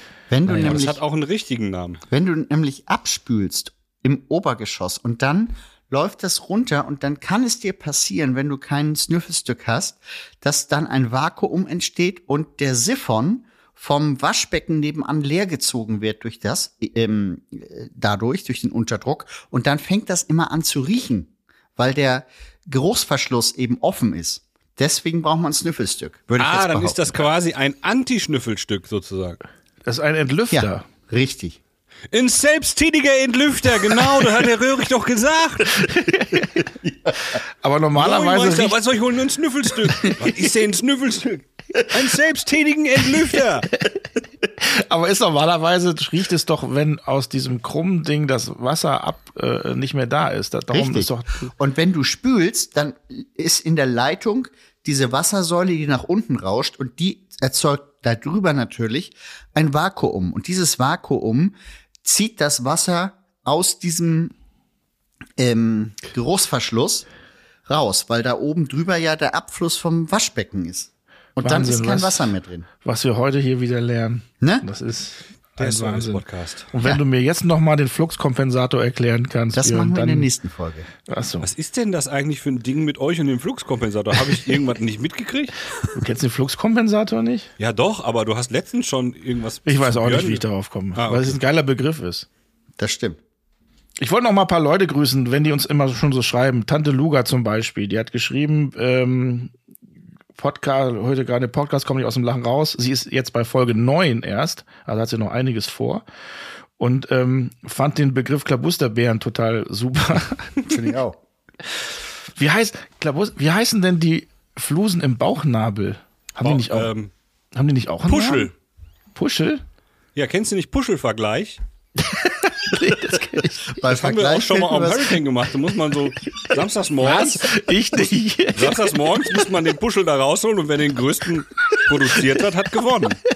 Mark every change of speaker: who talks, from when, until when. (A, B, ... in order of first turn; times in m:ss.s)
0:00.3-0:01.0 A
0:00.5-0:02.0 B
0:02.1-0:27.2 A
0:26.4-0:29.4 B
0:29.8-0:30.8 C
0:30.5-0:31.6 A
0:32.1-0:35.8 B
0:35.7-0:36.7 C
0:37.3-0:38.8 C
0:38.0-0:43.7 B
0:44.4-0:51.5 C
0:50.7-1:04.3 A
1:05.4-1:07.1 A
1:07.7-1:12.7 A
1:11.4-1:12.3 C
1:12.8-1:20.3 C
1:14.4-1:14.7 A
1:15.6-1:16.7 B
1:19.5-1:20.9 A
1:21.1-1:21.5 C
1:21.4-1:25.6 B
1:25.9-1:27.5 C
1:27.6-1:30.4 B
1:29.6-1:32.2 C
1:31.0-1:31.4 B
1:32.8-1:33.2 A
1:34.0-1:39.5 C
1:40.3-1:46.0 C
1:46.8-1:50.7 C
1:50.6-1:51.2 A
1:52.4-1:56.9 C
1:56.4-1:57.1 B
1:57.5-1:58.5 C
1:58.1-1:58.5 B
1:59.1-1:59.6 C
2:00.1-2:01.6 B
2:02.0-2:03.8 C
2:03.7-2:05.2 A
2:03.9-2:07.5 B
2:07.0-2:08.8 C
2:08.5-2:13.2 B
2:11.7-2:12.2 C